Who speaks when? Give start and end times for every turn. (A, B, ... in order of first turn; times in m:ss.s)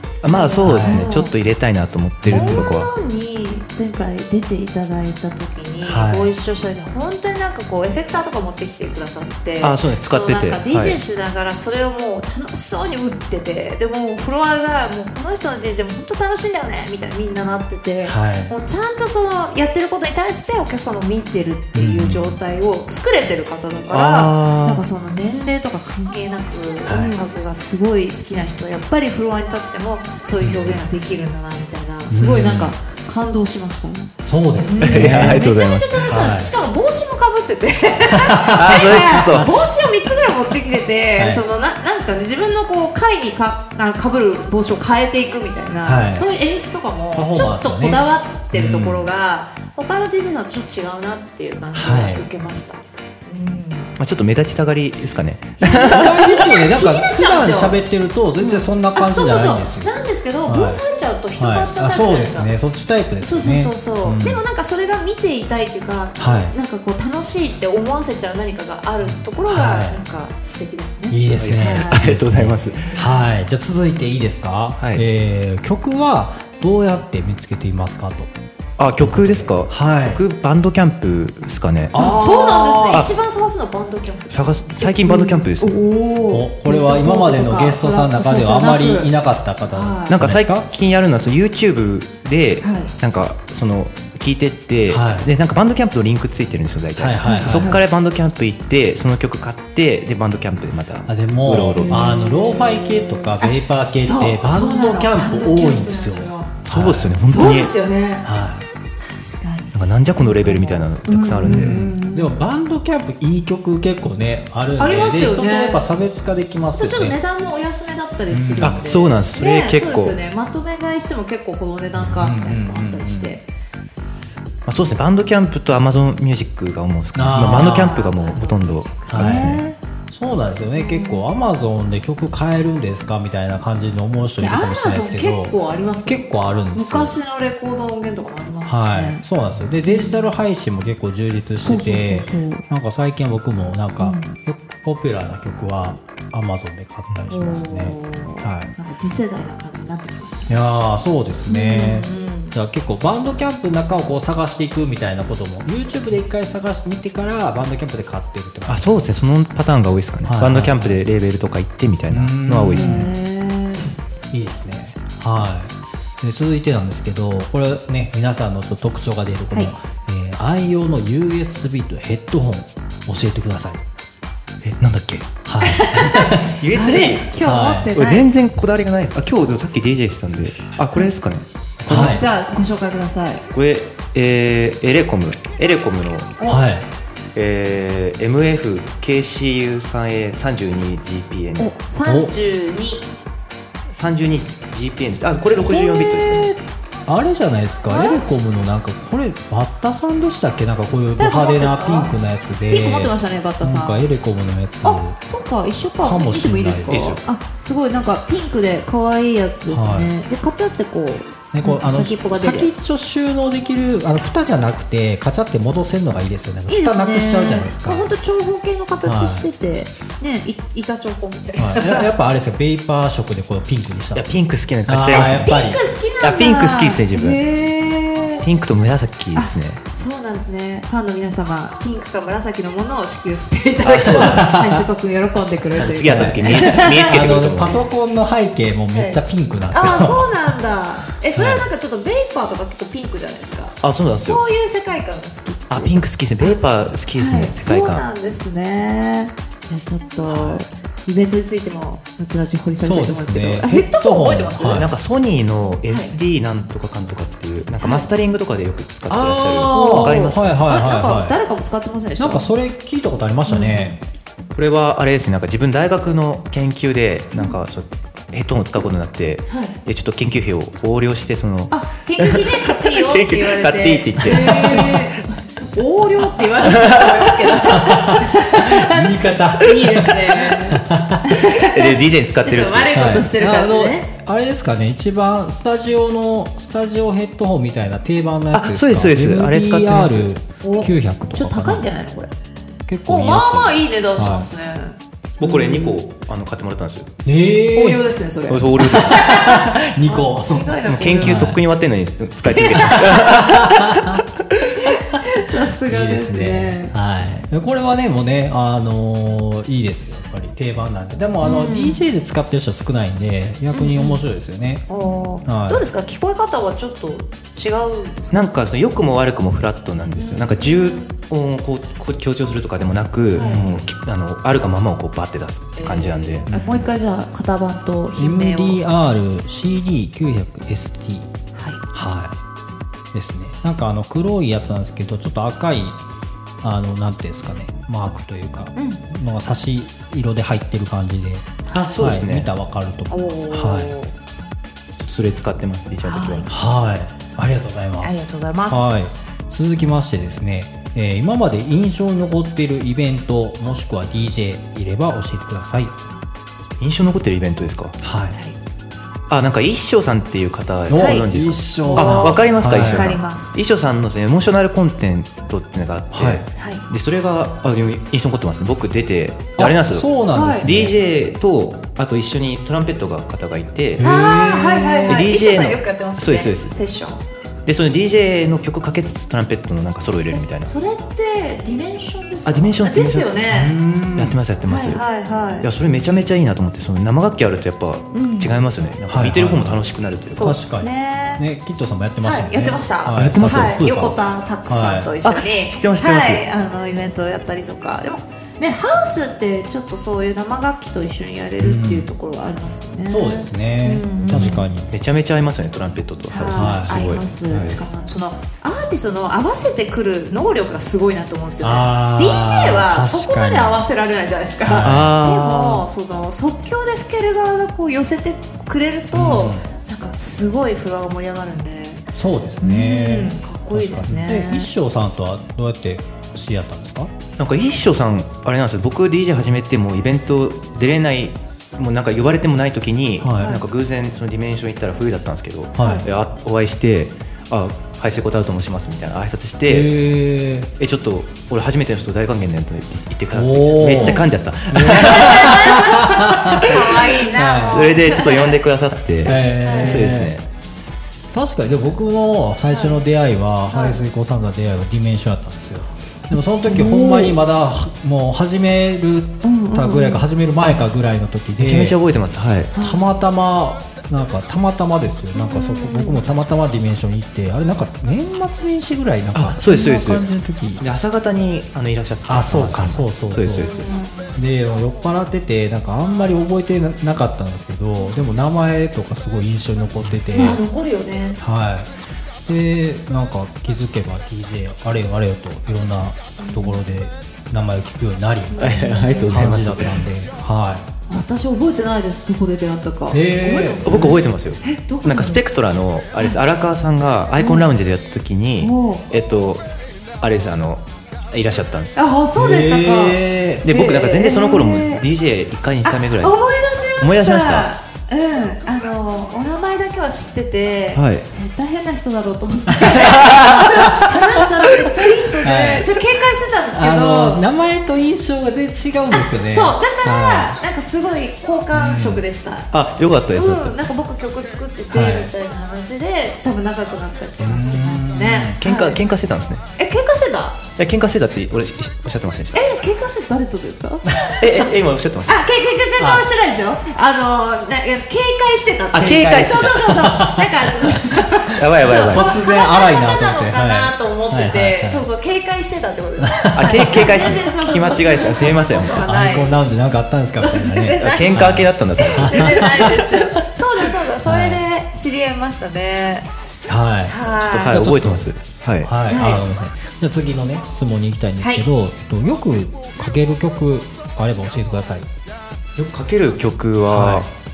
0:00.2-0:02.9 A
0:00.2-0:01.3 B
0:00.6-0:01.1 C
0:02.2-0:02.6 C
0:02.2-0:53.9 B
0:05.8-0:06.3 C
0:09.6-0:11.0 A
0:18.0-0:18.5 C
0:21.7-0:22.4 C
0:23.9-0:24.8 A
0:26.8-0:27.2 C
0:30.4-0:30.8 C
0:32.1-0:32.7 C
0:34.2-0:35.4 C
0:34.8-0:36.1 A
0:36.0-0:36.5 C
0:38.1-0:39.5 C
0:38.5-0:39.5 A
0:41.2-0:41.4 C
0:45.8-0:46.2 C
0:47.1-0:49.1 C
0:51.7-0:52.2 C
0:54.0-0:56.2 A
0:55.6-0:57.8 B
0:55.8-0:59.9 C
0:58.4-1:02.5 B
1:00.4-1:00.8 C
1:01.4-1:04.4 C
1:03.2-1:12.0 B
1:06.2-1:06.5 C
1:09.1-1:10.0 C
1:11.1-1:18.3 C
1:11.4-1:12.9 A
1:14.8-1:15.0 A
1:18.8-1:22.1 A
1:19.0-1:20.2 C
1:21.9-1:23.0 C
1:21.9-1:29.1 B
1:24.3-1:25.8 A
1:26.3-1:30.6 C
1:29.7-1:30.2 B
1:30.1-1:42.1 A
1:32.6-1:32.9 B
1:34.9-1:35.3 C
1:37.0-1:37.8 C
1:37.2-1:37.8 B
1:41.1-1:47.2 C
1:41.7-1:46.6 B
1:46.6-1:47.7 A
1:47.2-1:48.3 B
1:48.2-1:48.6 C
1:49.0-1:52.3 B
1:49.7-1:51.8 A
1:51.4-1:57.2 C
1:54.8-1:55.8 B
1:56.8-2:03.4 B
1:58.3-1:58.8 C
1:58.6-2:00.2 A
2:02.0-2:03.3 C
2:04.6-2:09.6 A
2:07.1-2:08.0 C
2:07.3-2:09.8 B
2:09.1-2:17.1 C
2:10.8-2:11.2 B
2:14.4-2:19.2 B
2:18.6-2:28.7 C
2:19.8-2:20.3 B
2:21.6-2:22.6 B
2:24.0-2:24.3 B
2:27.3-2:30.6 B
2:30.5-2:39.0 C
2:31.5-2:32.6 B
2:38.7-2:43.1 A
2:40.2-2:41.0 C
2:42.1-2:43.1 C
2:42.7-2:43.9 B
2:44.3-2:53.8 C
2:54.6-2:55.3 A
2:55.4-2:56.5 C
2:55.6-2:58.3 B
2:56.6-2:57.3 A
2:57.4-2:57.9 C
2:57.9-3:02.2 A
3:01.9-3:02.2 C
3:01.9-3:03.4 B
3:03.5-3:06.5 A
3:06.4-3:06.9 C
3:07.3-3:11.8 A
3:11.6-3:13.1 B
3:12.0-3:12.3 C
3:13.9-3:16.6 A
3:15.6-3:16.6 B
3:17.1-3:25.2 C
3:17.9-3:18.2 B
3:21.2-3:22.1 B
3:22.7-3:24.1 B
3:24.8-3:32.8 B
3:26.0-3:27.1 C
3:26.9-3:27.2 A
3:29.7-3:30.1 C
3:31.5-3:38.1 C
3:36.7-3:42.1 B
3:39.0-3:39.4 C
3:41.6-3:44.3 C
3:44.1-3:45.5 A
3:44.8-3:45.8 C
3:45.1-3:48.4 B
3:46.2-3:47.4 A
3:48.4-3:49.8 A
3:49.3-3:57.2 B
3:53.8-3:54.5 A
3:54.0-3:54.8 C
3:55.8-3:57.8 A
3:55.9-4:00.3 C
3:58.9-4:06.6 B
4:01.4-4:01.7 C
4:03.8-4:04.4 A
4:05.7-4:08.0 A
4:07.2-4:14.9 B
4:10.2-4:10.6 C
4:12.8-4:14.9 C
4:14.6-4:20.5 A
4:15.9-4:16.1 B
4:17.8-4:18.1 B
4:19.1-4:21.3 C
4:19.7-4:22.5 B
4:22.2-4:24.0 C
4:23.5-4:24.0 B
4:24.5-4:34.7 A
4:29.5-4:29.8 B
4:31.7-4:44.1 B
4:34.2-4:35.1 C
4:36.6-4:37.2 A
4:37.7-4:41.3 C
4:41.3-4:43.1 A
4:42.9-4:51.8 C
4:48.5-4:50.3 A
4:50.6-4:52.3 B
4:52.9-4:54.5 C
4:53.0-4:56.0 B
4:55.4-4:57.1 A
4:57.2-4:58.0 C
4:57.7-5:01.5 B
4:58.5-4:59.3 A
4:58.8-5:01.6 C
5:00.8-5:04.0 A
5:02.4-5:03.5 B
5:02.8-5:04.2 C
5:04.7-5:06.9 B
5:05.9-5:14.8 C
5:11.4-5:12.0 B
5:13.7-5:14.2 B
5:14.9-5:18.5 B
5:15.4-5:15.8 C
5:18.3-5:26.5 A
5:20.2-5:21.1 B
5:23.3-5:23.7 B
5:23.4-5:23.8 C
5:25.8-5:28.8 B
5:26.5-5:26.9 C
5:28.2-5:31.3 C
5:31.5-5:31.8 B
5:31.9-5:32.4 C
5:33.1-5:36.0 C
5:36.6-5:43.9 C
5:38.8-5:39.0 B
5:41.7-5:42.0 B
5:41.7-5:42.5 A
5:43.1-5:44.1 B
5:45.0-5:46.5 A
5:46.0-5:46.5 B
5:46.5-5:55.9 C
5:48.0-5:48.9 B
5:56.8-5:58.0 A
5:58.0-5:58.4 C
5:59.3-6:10.1 A
6:00.9-6:03.1 C
6:00.9-6:01.3 B
6:01.8-6:03.6 B
6:06.1-6:06.4 C
6:06.6-6:06.8 B
6:09.6-6:11.0 C
6:10.3-6:10.6 B
6:10.6-6:14.1 A
6:14.0-6:15.2 C
6:14.0-6:17.2 B
6:15.1-6:16.7 A
6:17.6-6:20.7 A
6:20.3-6:23.8 B
6:22.4-6:23.4 A
6:23.5-6:24.4 C
6:24.2-6:25.0 A
6:24.6-6:25.7 B
6:25.6-6:30.6 A
6:28.1-6:28.6 B
6:29.1-6:29.8 C
6:30.3-6:31.4 B
6:30.4-6:34.1 C
6:32.2-6:44.7 B
6:33.1-6:34.1 A
6:34.7-6:35.1 C
6:35.2-6:36.4 A
6:41.6-6:42.1 C
6:43.1-6:44.9 C
6:44.3-6:47.8 A
6:46.3-7:02.0 B
6:46.5-6:47.1 C
6:51.6-6:53.8 C
6:54.6-6:55.1 C
6:54.8-6:55.9 A
6:59.1-6:59.6 C
7:02.1-7:07.1 C
7:02.6-7:04.7 B
7:07.4-7:19.9 A
7:13.2-7:13.5 C
7:15.8-7:16.0 C
7:15.8-7:16.0 B
7:19.7-7:20.7 C
7:20.8-7:27.1 A
7:23.3-7:27.9 C
7:23.9-7:24.3 B
7:25.0-7:28.6 B
7:27.7-7:30.4 A
7:29.2-7:30.3 C
7:29.6-7:30.1 B
7:31.3-7:42.0 C
7:32.7-7:33.0 B
7:33.7-7:34.0 B
7:36.7-7:37.4 B
7:39.4-7:40.2 B
7:41.6-7:42.7 A
7:42.7-7:43.0 B
7:42.8-7:50.8 C
7:45.3-7:46.2 B
7:49.3-7:50.2 A
7:50.8-7:53.9 A
7:52.2-7:53.7 C
7:53.6-7:54.4 B
7:54.3-8:00.6 C
8:00.3-8:01.4 B
8:01.4-8:01.9 C
8:02.4-8:08.7 C
8:06.4-8:06.8 B
8:08.5-8:09.4 B
8:08.6-8:10.0 A
8:09.3-8:10.8 C
8:11.1-8:15.4 B
8:13.1-8:13.9 C
8:13.8-8:19.6 A
8:17.4-8:17.7 B
8:18.6-8:19.0 B
8:20.2-8:22.0 A
8:21.9-8:25.0 B
8:22.4-8:23.7 C
8:23.6-8:26.4 A
8:25.8-8:37.4 B
8:27.0-8:27.7 A
8:30.9-8:31.2 A
8:32.8-8:34.1 C
8:33.2-8:33.5 A
8:35.4-8:36.0 C
8:36.7-8:40.6 C
8:39.1-8:42.7 B
8:41.7-8:42.2 C
8:42.7-8:43.8 A
8:43.3-8:49.0 B
8:44.9-8:45.3 C
8:47.4-8:48.6 C
8:48.6-8:49.6 A
8:49.8-8:50.6 B
8:50.8-8:52.7 A
8:52.5-8:54.7 B
8:54.3-8:55.5 A
8:55.2-9:09.6 B
8:56.0-8:56.2 C
8:58.9-9:00.1 A
8:59.8-9:01.0 C
9:01.5-9:02.3 A
9:02.1-9:05.0 C
9:06.2-9:07.4 C
9:06.5-9:09.1 A
9:08.9-9:13.4 C
9:10.4-9:16.3 B
9:11.0-9:12.9 A
9:14.2-9:14.6 C
9:16.6-9:18.2 C
9:17.1-9:17.8 B
9:17.3-9:18.9 A
9:18.8-9:25.1 C
9:19.1-9:19.4 B
9:25.8-9:27.3 A
9:26.9-9:27.3 C